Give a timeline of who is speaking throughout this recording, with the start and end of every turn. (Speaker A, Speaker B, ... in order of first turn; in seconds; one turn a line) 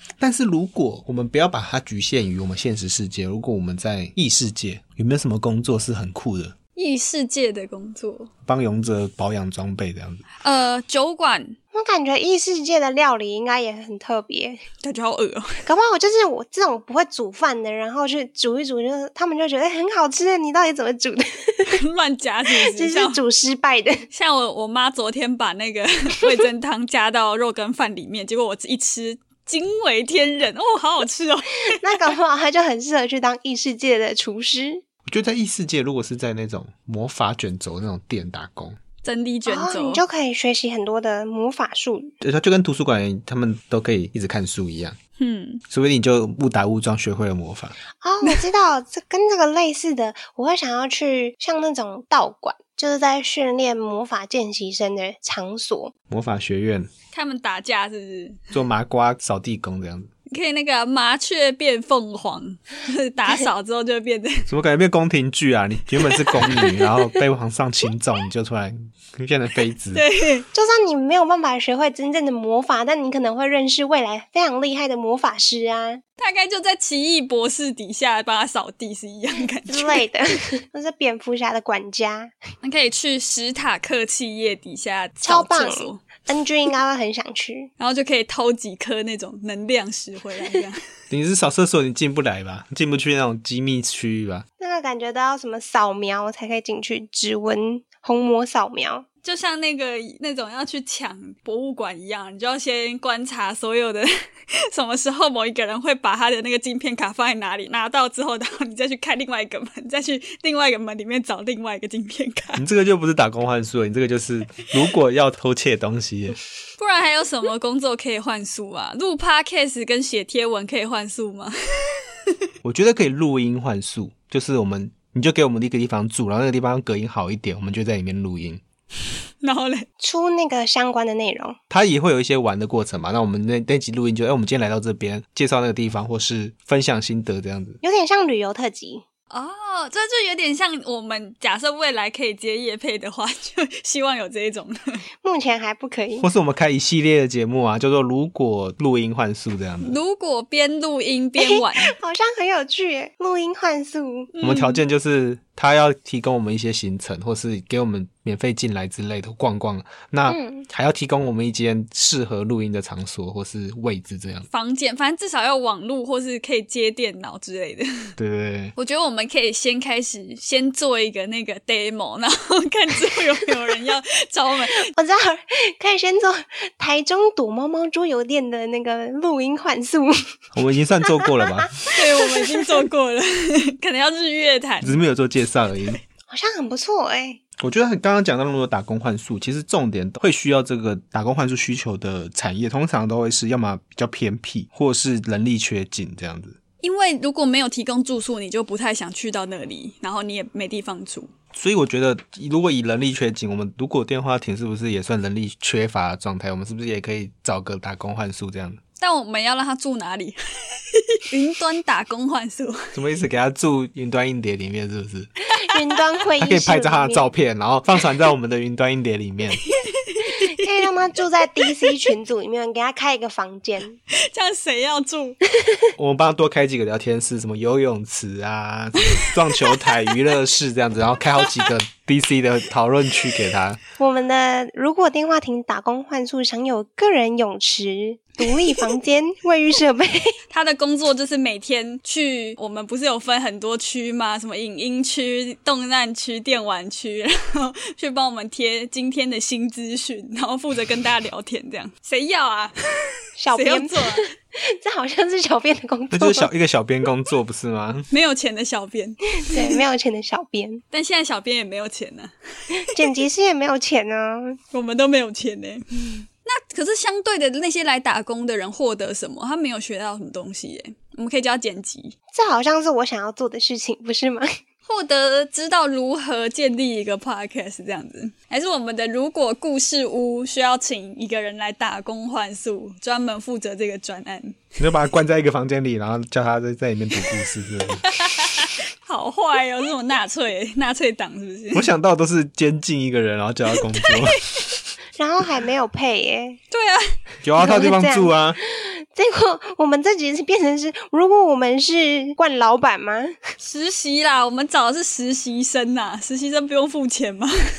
Speaker A: 0.2-6.5
Speaker B: 6.8-8.3
Speaker A: 8.4-10.2
Speaker B: 10.4-11.6
Speaker C: 11.7-14.6
Speaker B: 14.8-15.6
Speaker C: 15.7-21.8
Speaker B: 21.6-23.2
Speaker C: 22.5-24.1
Speaker B: 24.1-31.9
Speaker C: 31.8-34.8
Speaker A: 35.1-38.8
Speaker B: 39.0-40.0
Speaker C: 39.5-42.1
Speaker A: 42.2-45.0
Speaker B: 45.2-45.6
Speaker A: 45.7-47.8
Speaker C: 48.0-55.9
Speaker A: 56.1-56.9
Speaker B: 57.1-58.5
Speaker A: 58.5-60.1
Speaker B: 60.3-64.5
Speaker A: 64.5-70.0
Speaker B: 66.1-66.7
Speaker B: 69.9-70.4
Speaker C: 70.5-76.0
Speaker B: 76.2-80.0
Speaker C: 79.7-82.3
Speaker B: 82.6-86.0
Speaker C: 85.2-87.7
Speaker B: 87.8-90.8
Speaker A: 91.1-94.4
Speaker C: 94.6-99.0
Speaker B: 99.2-104.1
Speaker B: 104.7-112.6
Speaker A: 112.6-116.3
Speaker B: 116.8-122.0
Speaker A: 122.6-128.6
Speaker B: 129.4-129.8
Speaker C: 130.0-131.6
Speaker A: 131.7-137.8
Speaker C: 137.8-139.0
Speaker B: 139.3-145.0
Speaker C: 145.2-146.2
Speaker A: 146.2-150.0
Speaker B: 149.8-151.9
Speaker C: 151.4-154.3
Speaker B: 154.3-154.8
Speaker A: 154.4-164.5
Speaker C: 160.3-160.7
Speaker B: 164.5-168.1
Speaker A: 168.2-168.7
Speaker B: 168.8-174.9
Speaker C: 174.9-180.2
Speaker A: 180.5-181.7
Speaker C: 181.2-182.6
Speaker B: 181.9-185.0
Speaker A: 184.8-186.0
Speaker C: 186.3-187.4
Speaker A: 187.6-196.6
Speaker B: 196.8-201.3
Speaker A: 201.5-208.8
Speaker B: 209.0-212.9
Speaker A: 212.9-215.3
Speaker B: 215.5-215.8
Speaker C: 215.6-217.3
Speaker A: 216.4-219.6
Speaker B: 219.7-220.5
Speaker C: 220.3-224.0
Speaker B: 224.1-225.4
Speaker A: 226.0-233.8
Speaker B: 229.2-230.0
Speaker C: 234.0-240.3
Speaker B: 240.5-254.3
Speaker C: 253.4-256.5
Speaker A: 256.1-258.1
Speaker B: 258.1-259.8
Speaker C: 259.4-260.8
Speaker B: 260.9-263.1
Speaker C: 262.8-264.6
Speaker B: 264.7-272.1
Speaker C: 272.3-274.5
Speaker B: 274.9-284.7
Speaker A: 284.8-288.0
Speaker B: 288.0-291.9
Speaker A: 291.7-294.4
Speaker B: 294.0-294.8
Speaker C: 295.2-296.6
Speaker B: 296.7-297.9
Speaker A: 297.4-298.6
Speaker C: 297.6-303.4
Speaker B: 303.6-307.5